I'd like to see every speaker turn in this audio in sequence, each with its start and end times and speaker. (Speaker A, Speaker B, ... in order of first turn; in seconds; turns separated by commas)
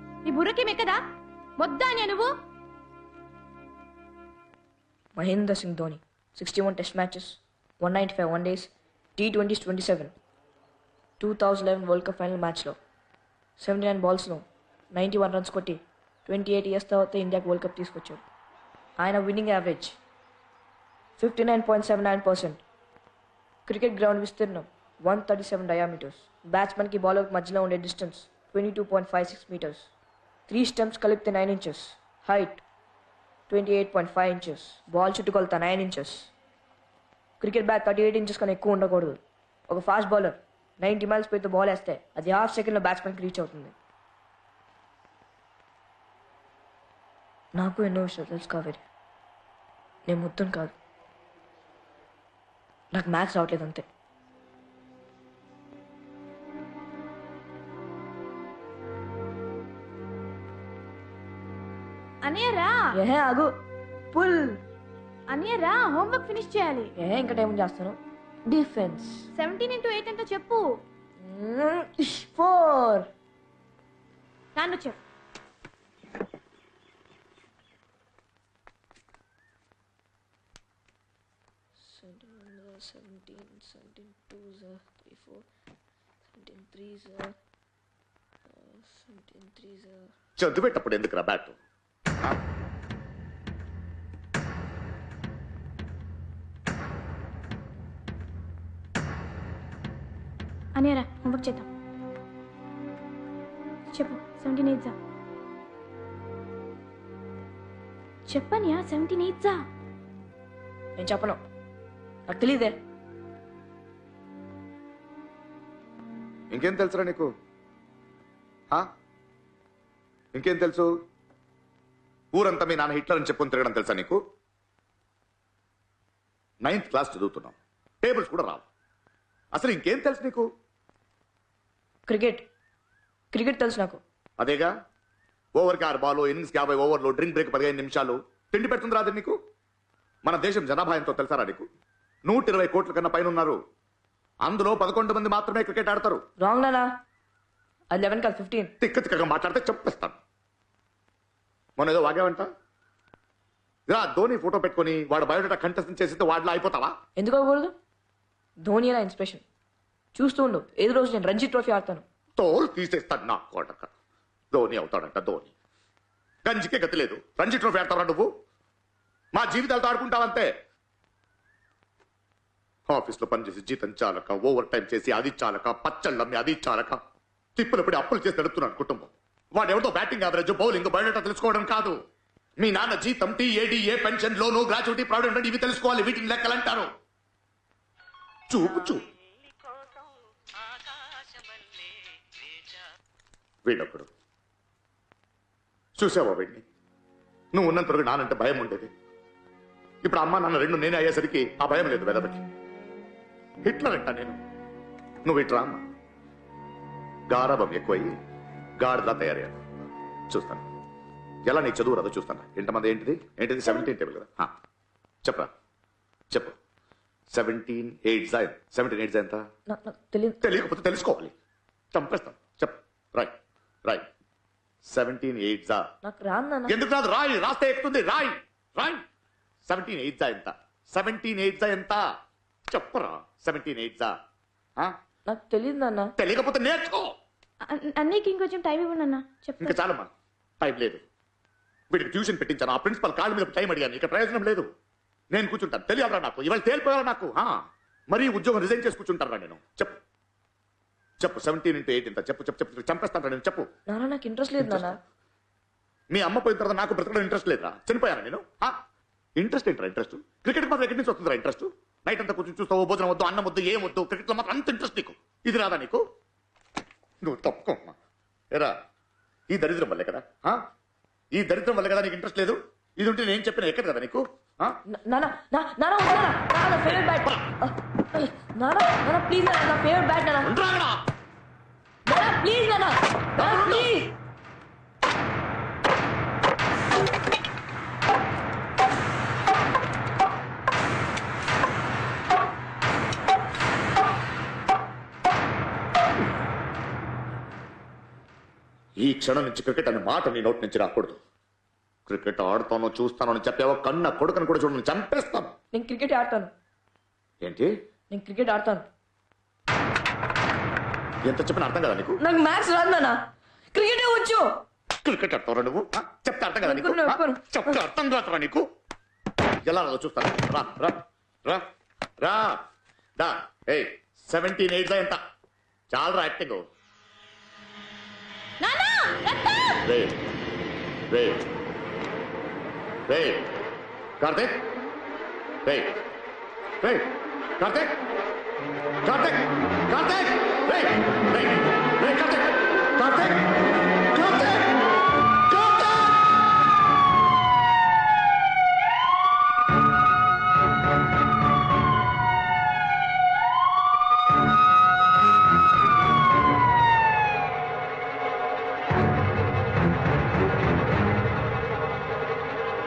Speaker A: 0.2-1.0, Speaker A: 1.6-2.3, Speaker B: 5.2-10.1, Speaker B: 11.2-12.8, Speaker B: 13.6-18.2, Speaker B: 19.0-20.0, Speaker B: 21.2-22.6, Speaker B: 23.6-29.9, Speaker B: 30.5-32.6, Speaker B: 33.5-36.3, Speaker B: 37.4-43.7, Speaker B: 47.6-48.8, Speaker B: 50.1-50.8, Speaker B: 52.9-53.9, Speaker A: 62.2-62.8, Speaker B: 62.9-63.5, Speaker B: 64.1-64.6, Speaker A: 65.3-66.9, Speaker B: 67.0-69.3, Speaker A: 69.3-70.6, Speaker B: 71.2-73.1, Speaker A: 74.5-75.0, Speaker B: 81.8-85.5, Speaker B: 86.3-87.3, Speaker B: 88.5-90.1, Speaker C: 90.4-91.5, Speaker A: 100.8-101.7, Speaker A: 103.9-104.9, Speaker A: 108.3-109.6, Speaker B: 111.0-111.4, Speaker B: 112.3-112.8, Speaker C: 116.5-117.3, Speaker C: 120.3-120.9, Speaker C: 122.3-124.2, Speaker C: 126.6-128.7, Speaker C: 129.5-130.5, Speaker B: 132.1-132.4, Speaker B: 133.3-134.0, Speaker C: 134.4-134.7, Speaker C: 135.6-139.3, Speaker C: 140.2-141.6, Speaker C: 142.2-143.6, Speaker C: 144.4-146.2, Speaker B: 146.4-146.9, Speaker B: 147.9-148.7, Speaker C: 148.8-150.2, Speaker C: 151.8-152.5, Speaker C: 153.9-156.9, Speaker B: 157.2-157.7, Speaker B: 158.6-159.4, Speaker B: 160.1-162.0, Speaker C: 162.4-163.9, Speaker C: 164.5-165.5, Speaker C: 166.4-168.3, Speaker C: 169.3-170.5, Speaker C: 172.9-177.0, Speaker C: 177.6-181.9, Speaker C: 182.6-186.9, Speaker C: 188.5-189.0, Speaker C: 193.6-194.1, Speaker C: 196.0-196.6, Speaker C: 197.5-198.9, Speaker C: 200.0-202.4, Speaker C: 203.6-204.4, Speaker C: 205.2-205.8, Speaker C: 207.3-208.1, Speaker C: 208.8-209.5, Speaker C: 210.3-210.6, Speaker C: 211.4-214.5, Speaker C: 215.2-215.5, Speaker C: 217.3-219.4, Speaker B: 219.7-220.4, Speaker C: 220.4-221.3, Speaker C: 221.9-224.1, Speaker C: 224.9-225.9, Speaker B: 226.0-226.7, Speaker C: 226.7-229.0, Speaker C: 229.6-232.0, Speaker C: 232.7-234.1, Speaker B: 235.3-236.1, Speaker C: 236.2-237.1, Speaker A: 237.7-239.7, Speaker C: 239.6-240.1, Speaker C: 240.6-241.0, Speaker C: 241.9-244.6, Speaker C: 245.3-247.5, Speaker C: 248.1-250.0, Speaker C: 251.2-253.7, Speaker B: 253.9-255.0, Speaker C: 254.6-254.9, Speaker C: 256.1-258.7, Speaker C: 259.4-266.0, Speaker C: 267.2-267.9, Speaker C: 269.5-270.6, Speaker C: 271.3-274.8, Speaker B: 274.9-280.5, Speaker C: 276.9-277.4, Speaker C: 280.4-281.0, Speaker B: 282.1-284.1, Speaker C: 283.4-283.9, Speaker C: 299.0-301.2, Speaker C: 302.1-305.5, Speaker B: 305.7-306.5, Speaker C: 307.4-307.7, Speaker B: 308.1-308.9, Speaker C: 311.2-312.2, Speaker B: 312.2-313.2, Speaker B: 313.7-314.5, Speaker C: 315.0-318.6, Speaker B: 316.6-317.8, Speaker C: 319.6-321.6, Speaker C: 322.2-322.6, Speaker C: 323.2-325.2, Speaker C: 325.9-326.6, Speaker A: 328.6-329.8, Speaker C: 329.8-330.2, Speaker C: 331.1-331.4, Speaker C: 333.1-333.5, Speaker C: 334.2-334.6, Speaker C: 335.6-335.9, Speaker C: 336.8-337.1, Speaker C: 337.6-337.9, Speaker C: 339.0-343.5, Speaker C: 344.1-344.7, Speaker C: 345.5-346.3